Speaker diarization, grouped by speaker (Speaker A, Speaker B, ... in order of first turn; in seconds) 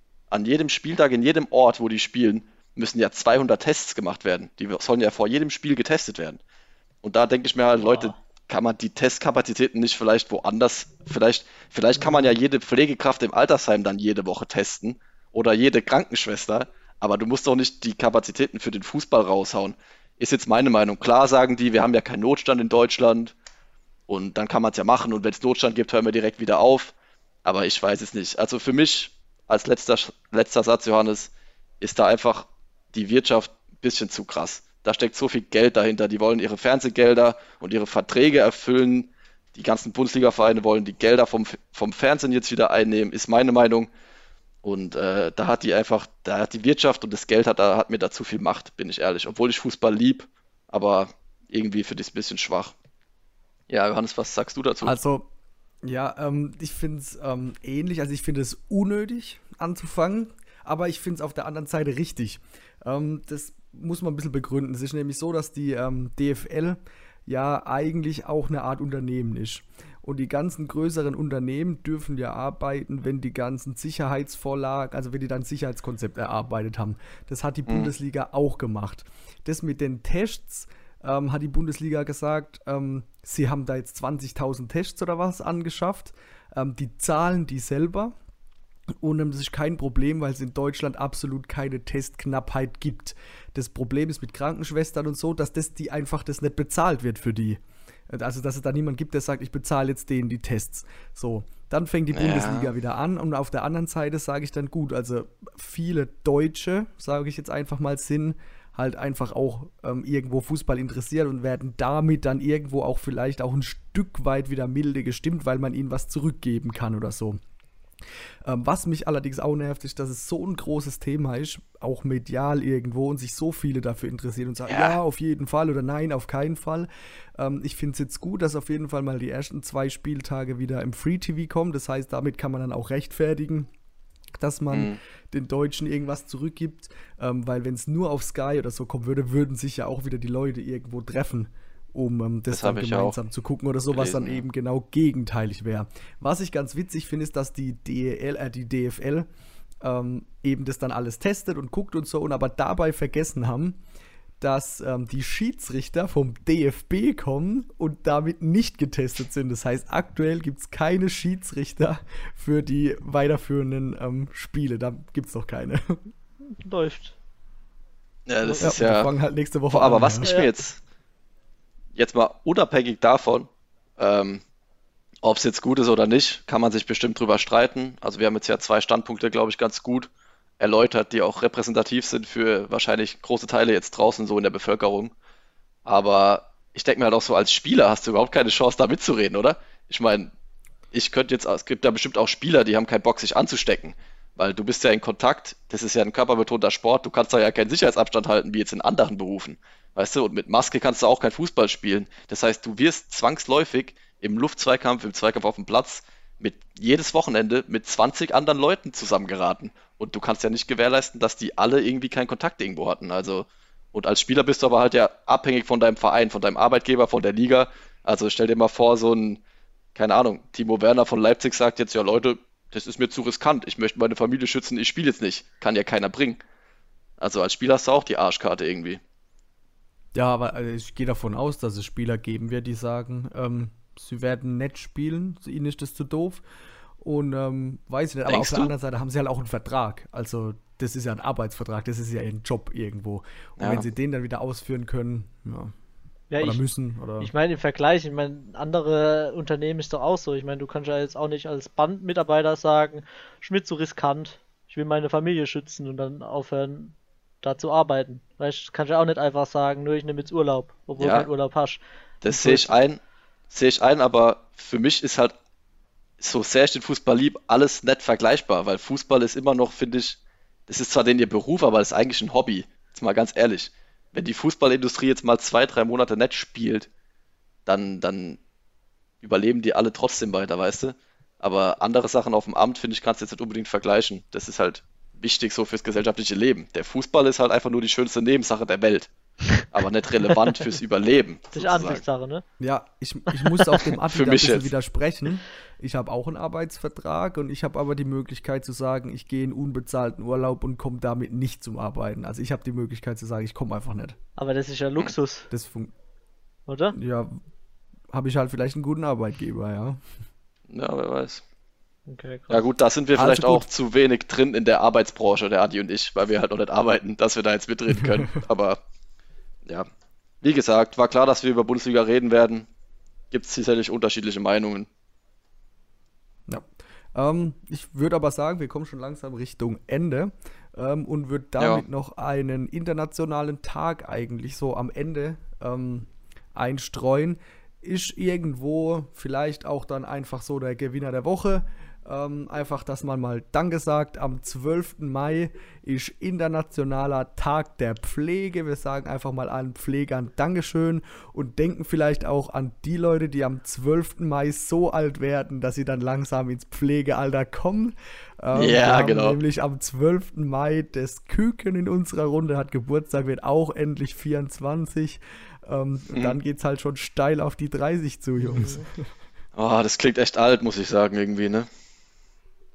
Speaker A: 0.3-6.4, 7.0-23.3, 24.1-26.9, 27.4-43.9, 44.6-52.7, 53.7-54.9, 77.7-77.9, 102.1-102.7, 124.7-125.0, 134.7-135.0, 142.5-143.2, 143.9-144.4, 168.3-169.1, 169.7-170.8, 171.9-174.4, 175.2-185.1, 185.8-190.3, 190.9-219.4, 219.9-226.4, 227.2-229.0, 238.3-238.7, 243.6-243.9, 261.0-261.3, 262.2-265.3, 266.2-276.9, 277.6-278.4, 279.2-289.1, 289.7-292.0, 293.8-294.7, 310.7-311.4, 312.5-318.8, 320.4-322.7, 323.3-324.9, 331.6-331.8, 358.5-359.4, 369.6-371.7
Speaker B: 7.8-8.1, 166.6-167.2, 168.4-168.7, 170.2-170.5, 246.3-246.6, 247.2-262.8, 290.3-290.7, 291.5-292.4, 304.4-305.5, 306.7-306.9, 312.1-312.6, 368.4-368.8
Speaker C: 54.8-55.3, 55.8-88.2, 89.0-117.4, 118.4-133.7, 134.4-149.3, 149.8-153.8, 154.4-166.0, 168.6-170.4, 230.1-236.4, 237.0-245.7, 246.4-247.3, 292.6-304.2, 305.5-305.9, 306.9-307.4, 308.1-310.0, 313.1-313.7, 326.5-368.9